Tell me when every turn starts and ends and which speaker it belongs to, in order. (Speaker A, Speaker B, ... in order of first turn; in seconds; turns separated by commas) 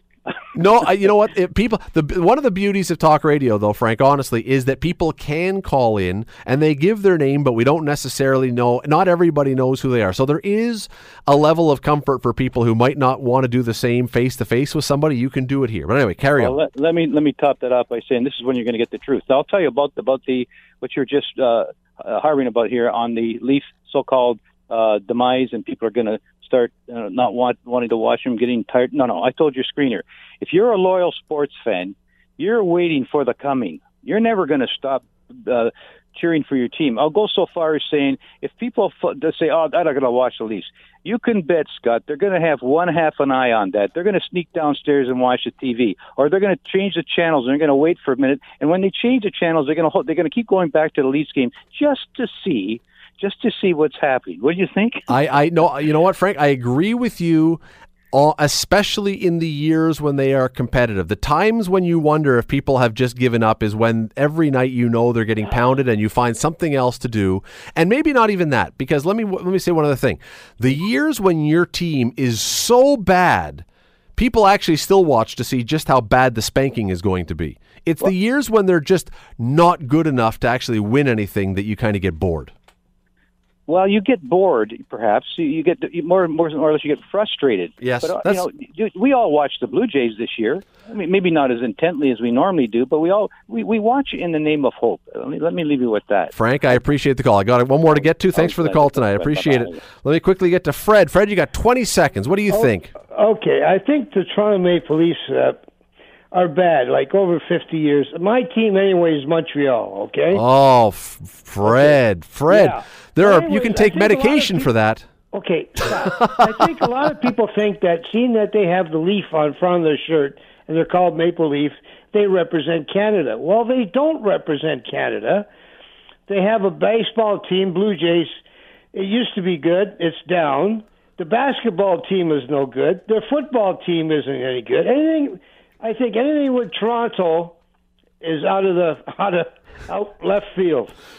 Speaker A: 0.5-16.6, Speaker B: 16.4-55.1, Speaker A: 55.1-57.6, Speaker A: 58.1-73.7, Speaker A: 74.2-82.5, Speaker B: 83.7-96.8, Speaker A: 87.8-88.5, Speaker A: 96.3-102.9, Speaker B: 97.9-99.8, Speaker C: 102.5-105.6, Speaker C: 106.3-110.4, Speaker A: 110.3-115.1, Speaker C: 111.6-114.7, Speaker C: 115.3-125.5, Speaker A: 116.0-116.6, Speaker C: 126.3-128.4, Speaker C: 128.9-137.6, Speaker C: 138.2-140.9